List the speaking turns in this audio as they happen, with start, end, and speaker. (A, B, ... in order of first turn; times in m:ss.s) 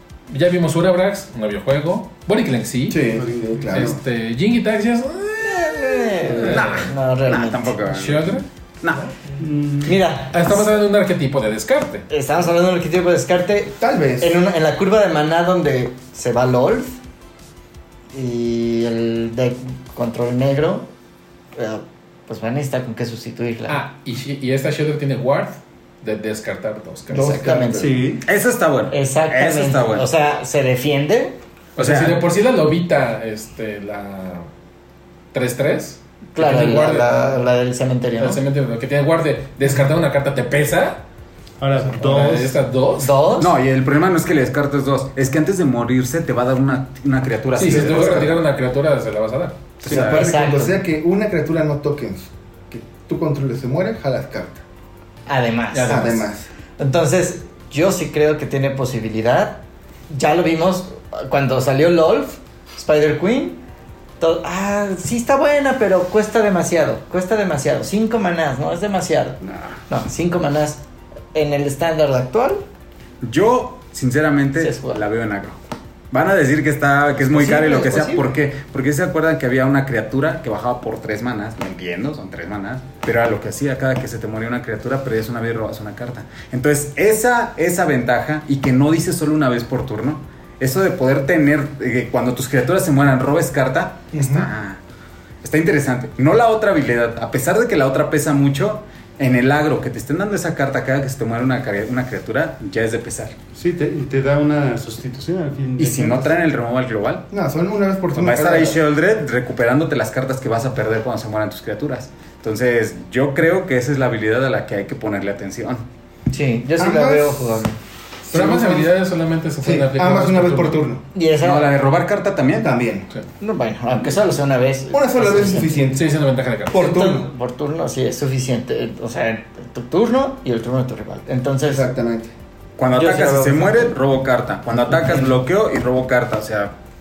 0:00.3-0:03.0 A
0:02.9-0:04.0 B
0:03.1-0:03.6 C
0:03.7-0:06.9 A
0:05.4-0:07.8 D
0:06.4-0:09.0 E
0:07.9-0:08.4 A
0:09.4-0:10.0 C
0:09.8-0:10.6 D
0:10.3-0:12.1 A
0:12.1-0:17.0 D
0:13.8-0:14.4 B
0:18.1-0:20.9 D
0:21.6-0:23.8 D
0:23.7-0:27.4 A
0:27.1-0:28.1 B
0:27.1-0:27.9 D
0:27.8-0:28.2 C
0:28.3-0:30.1 E
0:28.9-0:31.4 D
0:31.8-0:34.5 A
0:31.8-0:32.2 E
0:35.3-0:37.2 A
0:36.4-0:38.4 D
0:38.2-0:41.0 A
0:41.6-0:42.6 C
0:41.8-0:43.4 A
0:43.0-0:43.5 D
0:43.4-0:48.4 E
0:47.6-0:49.7 A
0:49.8-0:50.3 E
0:49.8-0:54.6 B
0:49.9-0:50.8 D
0:55.3-0:56.1 D
0:55.7-0:56.3 A
0:55.8-0:56.5 B
0:56.8-1:03.6 D
1:04.2-1:10.8 D
1:11.3-1:12.6 D
1:13.2-1:15.6 E
1:14.6-1:15.0 D
1:16.1-1:34.8 E
1:17.3-1:18.3 D
1:34.1-1:34.5 B
1:35.4-1:43.4 E
1:43.6-1:46.4 C
1:45.8-1:47.3 E
1:47.3-1:48.8 B
1:48.1-1:55.9 E
1:56.3-1:57.8 D
1:56.8-1:57.6 B
1:58.3-1:58.9 B
1:58.3-2:00.9 A
1:59.6-2:01.0 B
2:01.1-2:01.7 D
2:01.4-2:02.7 E
2:02.6-2:03.1 B
2:03.4-2:05.8 D
2:04.9-2:06.1 B
2:05.9-2:06.9 A
2:06.7-2:07.3 B
2:06.7-2:11.9 D
2:11.6-2:12.3 B
2:12.8-2:16.8 E
2:12.9-2:13.9 D